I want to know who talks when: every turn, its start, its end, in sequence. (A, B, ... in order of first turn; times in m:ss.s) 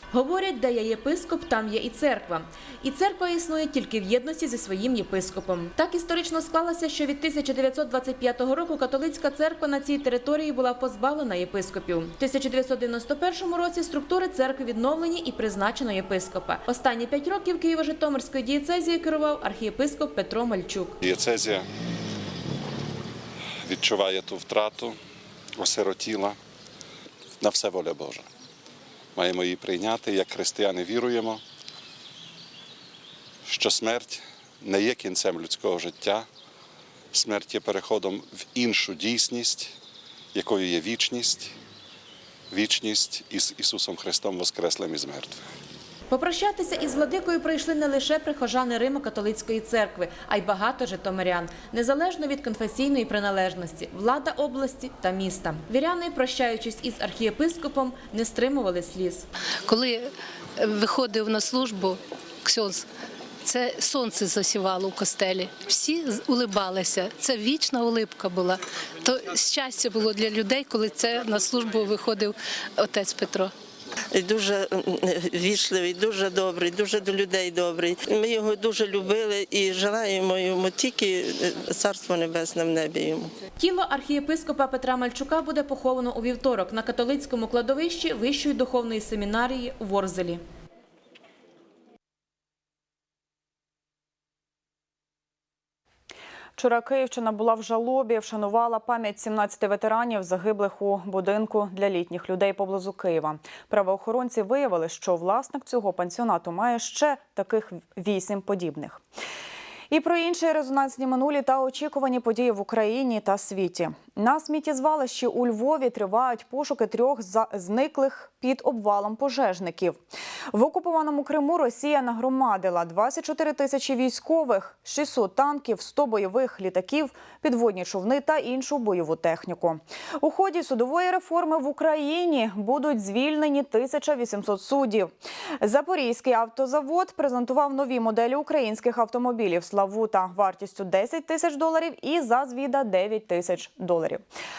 0:00.2-0:20.9 A
0:21.0-0:21.7 B
0:23.7-0:25.0 B
0:25.6-0:26.4 B
0:27.4-0:28.3 B
0:29.2-0:31.4 B
0:33.4-0:36.3 B
0:37.1-0:39.7 B
0:40.3-0:41.6 B
0:42.5-0:45.4 B
0:46.1-0:59.3 A
0:59.7-1:00.1 C
1:00.6-1:02.8 C
1:03.4-1:13.5 C
1:14.1-1:23.3 D
1:23.6-1:30.4 A
1:36.6-1:49.0 E
1:49.9-2:00.0 E
2:00.5-2:24.2 E